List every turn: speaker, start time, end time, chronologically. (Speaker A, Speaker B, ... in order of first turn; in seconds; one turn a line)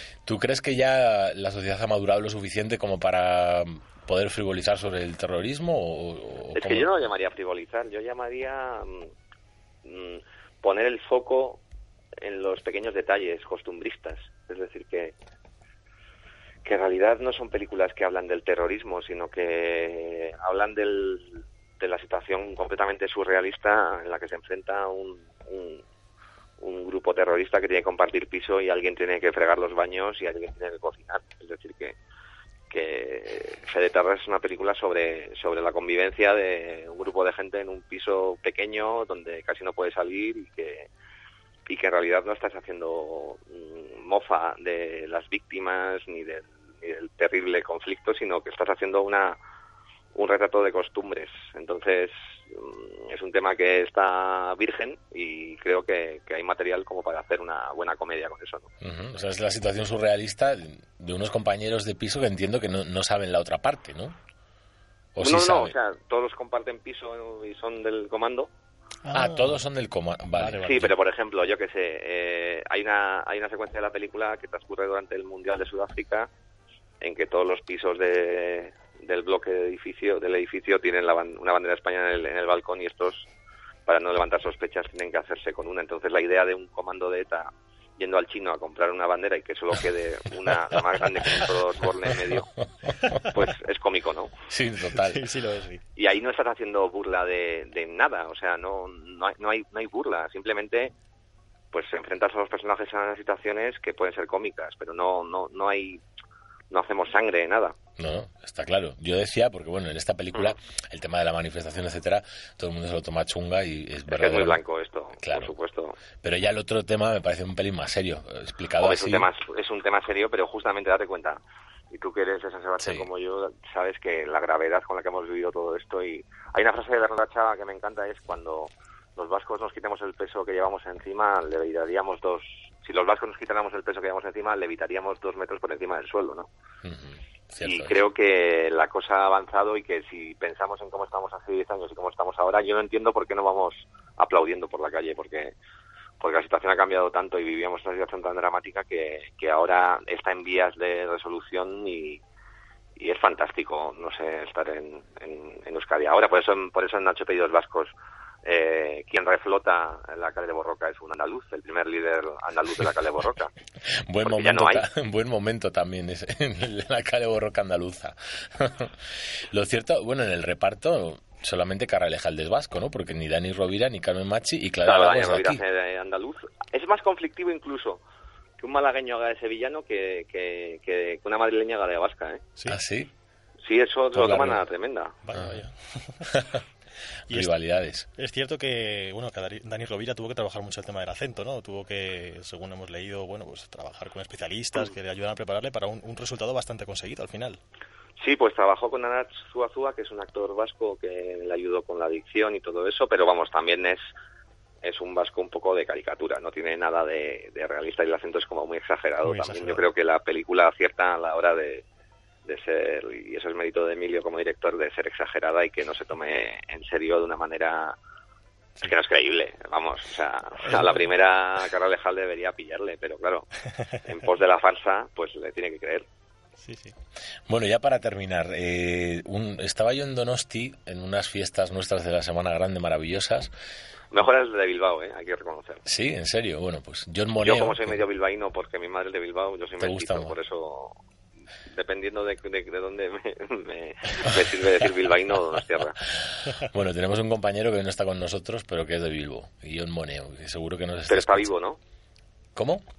Speaker A: 0.2-6.9
Speaker B: 6.5-9.1
Speaker B: 9.8-11.6
Speaker B: 12.2-15.1
Speaker B: 16.6-25.8
Speaker B: 26.6-31.9
Speaker B: 32.7-40.9
Speaker B: 41.7-49.4
Speaker B: 50.1-58.7
Speaker A: 58.8-64.2
Speaker A: 65.2-65.7
Speaker B: 65.2-68.5
Speaker C: 69.0-69.6
Speaker A: 69.1-70.9
Speaker C: 70.4-70.9
Speaker B: 70.6-76.3
Speaker B: 77.0-83.2
Speaker B: 83.8-92.5
Speaker B: 93.3-94.3
Speaker A: 94.5-95.2
Speaker C: 95.1-95.8
Speaker B: 96.0-100.9
Speaker B: 101.7-106.0
Speaker B: 106.7-107.7
Speaker A: 108.0-114.6
Speaker B: 114.1-116.0
Speaker A: 115.2-115.5
Speaker A: 116.2-119.3
Speaker B: 118.8-121.4
Speaker B: 121.9-136.5
Speaker A: 122.8-123.1
Speaker A: 136.8-138.0
Speaker B: 137.6-145.5
Speaker B: 146.2-152.2
Speaker B: 153.0-157.9
Speaker B: 158.4-163.5
Speaker A: 164.1-169.0
Speaker B: 164.2-164.8
Speaker A: 169.5-175.6
Speaker B: 174.8-178.0
Speaker B: 178.6-182.4
Speaker A: 182.7-183.1
Speaker B: 183.6-185.1
Speaker A: 184.1-184.6
Speaker C: 185.2-186.2
Speaker A: 185.3-185.6
Speaker A: 186.3-186.6
Speaker A: 187.3-188.1
Speaker C: 188.2-197.6
Speaker B: 198.2-204.0
Speaker B: 204.8-211.8
Speaker C: 209.2-209.8
Speaker B: 212.4-218.0
Speaker B: 218.8-223.5
Speaker C: 220.6-221.0
Speaker B: 224.1-226.1
Speaker C: 226.6-226.9
Speaker A: 227.5-233.5
Speaker B: 234.1-235.8
Speaker A: 235.8-238.0
Speaker B: 237.4-241.0
Speaker A: 239.8-240.3
Speaker B: 241.7-246.0
Speaker A: 246.5-251.5
Speaker B: 251.1-251.8
Speaker A: 252.5-252.8